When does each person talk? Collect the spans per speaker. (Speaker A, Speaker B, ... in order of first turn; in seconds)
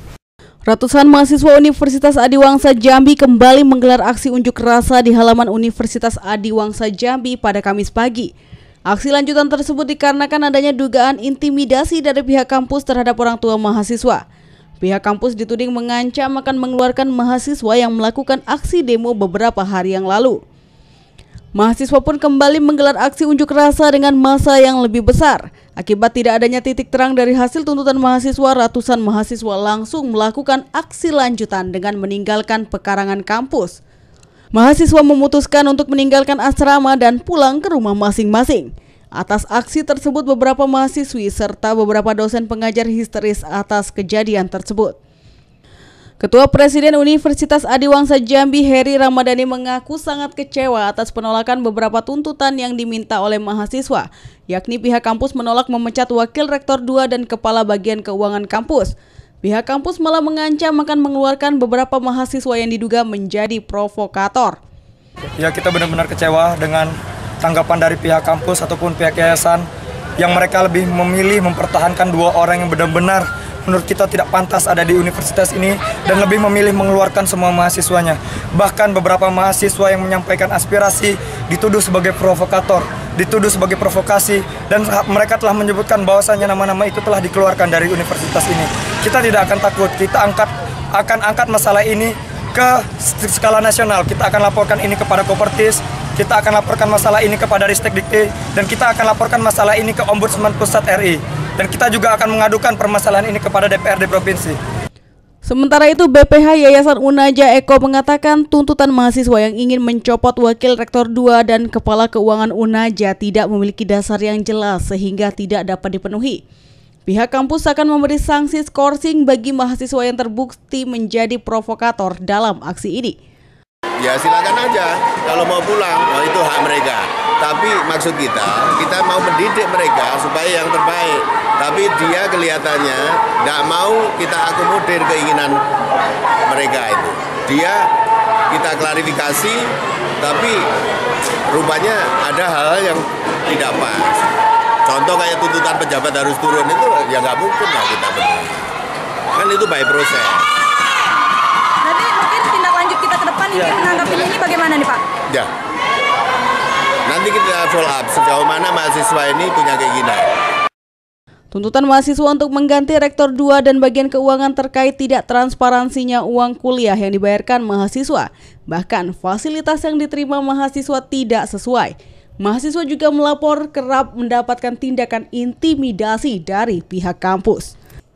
Speaker A: 0.7-8.3, 8.9-14.2, 14.8-20.4, 21.5-33.8, 34.5-45.0, 46.2-64.6, 105.4-116.4, 117.1-123.2, 161.5-177.7
Speaker B: 65.4-69.7, 70.2-104.6
Speaker C: 124.0-135.6, 136.5-137.9, 138.5-139.7, 140.2-140.7, 141.5-144.2, 144.8-148.6, 149.3-150.5, 157.1-160.3
Speaker D: 151.9-155.0